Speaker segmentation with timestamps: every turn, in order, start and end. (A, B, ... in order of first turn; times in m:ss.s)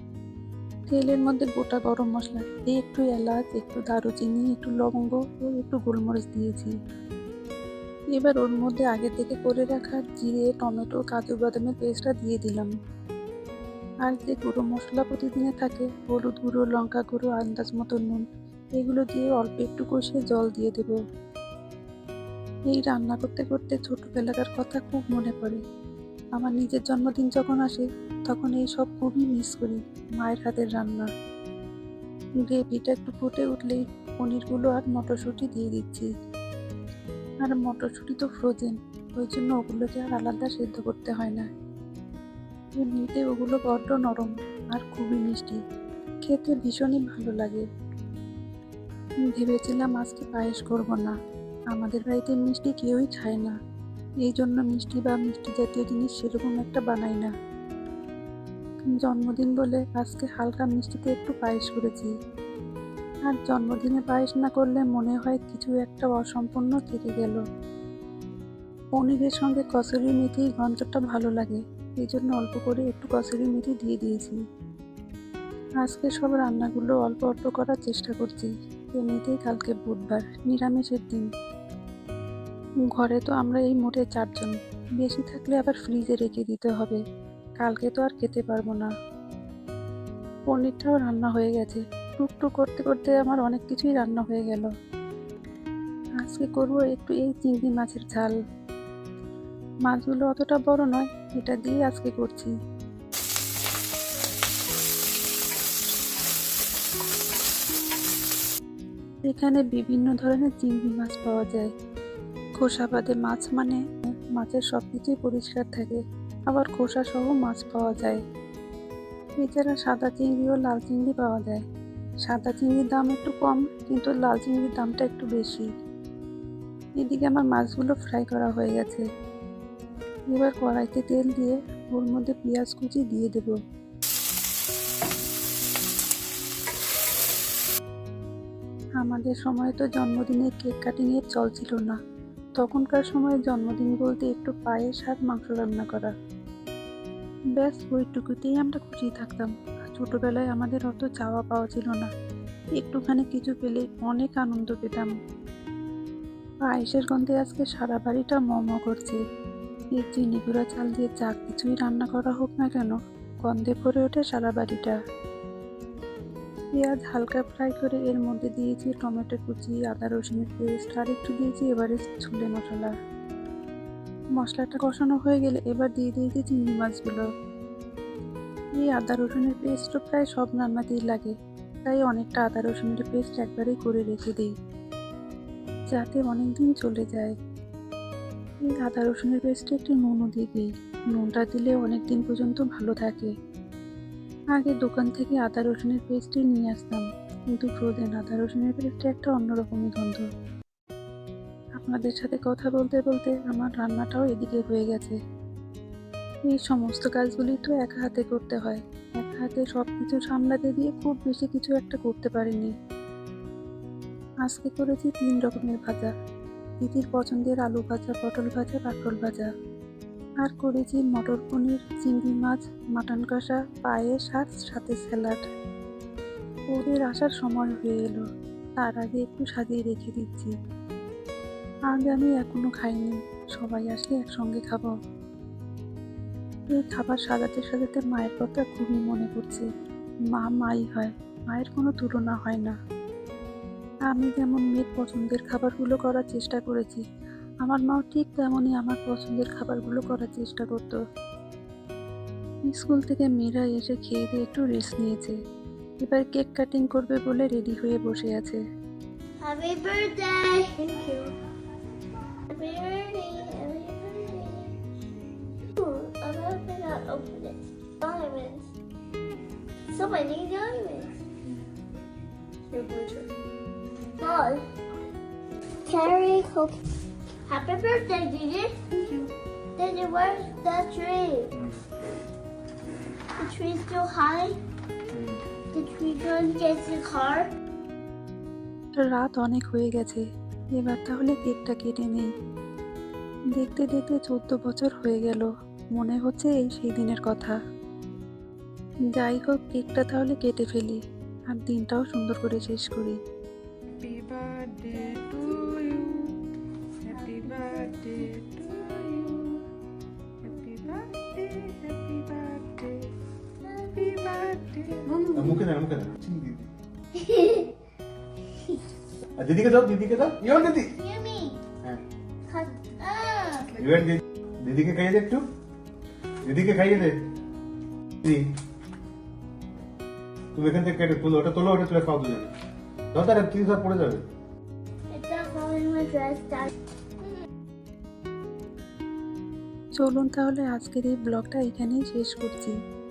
0:00.9-0:06.7 A
0:08.1-0:12.7 A
0:14.0-0:18.2 A
0:18.8-0:21.0 A
0:22.7-0:25.6 A
0:26.4-0:31.1 A
0:32.4-0:36.1 A
0:37.4-0:41.5 A
0:42.8-0:45.6 A
0:46.2-0:47.6 A
0:49.3-0:51.1 A
0:51.7-0:53.5 A
0:54.2-0:57.3 A
0:59.0-1:02.1 A
1:03.3-1:07.4 A
1:09.0-1:14.4 A
1:15.8-1:21.3 A
1:22.9-1:27.0 A
1:27.6-1:28.9 A
1:30.5-1:34.7 A
1:36.2-1:38.4 A
1:39.8-1:42.5 A
1:49.2-1:51.7 A
1:52.6-1:53.8 A
1:54.3-1:58.2 A
1:59.4-2:01.6 A
2:02.2-2:05.7 A
2:07.0-2:09.0 A
2:10.3-2:13.6 A
2:19.0-2:22.0 A
2:22.6-2:26.1 A
2:27.6-2:32.1 A
2:32.7-2:35.1 A
2:36.7-2:39.2 A
2:39.9-2:45.0 A
2:46.8-2:52.9 A
2:54.4-2:57.2 A
2:58.8-3:04.5 A
3:05.9-3:07.3 A
3:08.6-3:13.3 A
3:14.5-3:20.2 A
3:21.8-3:25.2 A
3:26.4-3:32.7 A
3:34.4-3:36.1 A
3:36.8-3:39.5 A
3:40.4-3:45.4 A
3:46.7-3:48.2 A
3:48.8-3:50.5 A
3:51.9-3:54.9 A
3:56.7-3:59.6 A
4:00.3-4:02.8 A
4:04.1-4:07.0 A
4:07.6-4:11.0 A
4:12.6-4:15.4 A
4:16.0-4:18.6 A
4:19.4-4:21.3 B
4:22.5-4:24.8 B
4:25.8-4:28.7 B
4:29.9-4:31.1 B
4:32.7-4:33.2 C
4:34.2-4:34.6 B
4:35.8-4:36.8 B
4:37.5-4:39.2 B
4:39.8-4:41.5 B
4:43.3-4:44.6 B
4:45.1-4:45.4 D
4:45.7-4:47.5 B
4:49.0-4:50.2 A
4:50.7-4:52.3 A
4:53.5-4:57.6 A
4:59.1-5:03.2 A
5:04.0-5:06.4 C
5:07.1-5:09.6 C
5:10.4-5:13.1 C
5:13.6-5:15.3 B
5:14.0-5:15.4 C
5:15.3-5:16.7 D
5:17.1-5:17.7 B
5:18.6-5:18.8 B
5:19.4-5:20.9 D
5:20.8-5:21.6 B
5:22.5-5:23.8 B
5:23.8-5:25.4 D
5:26.4-5:27.2 D
5:28.2-5:28.5 D
5:30.5-5:32.5 D
5:33.1-5:34.2 D
5:35.1-5:36.7 B
5:40.0-5:42.7 A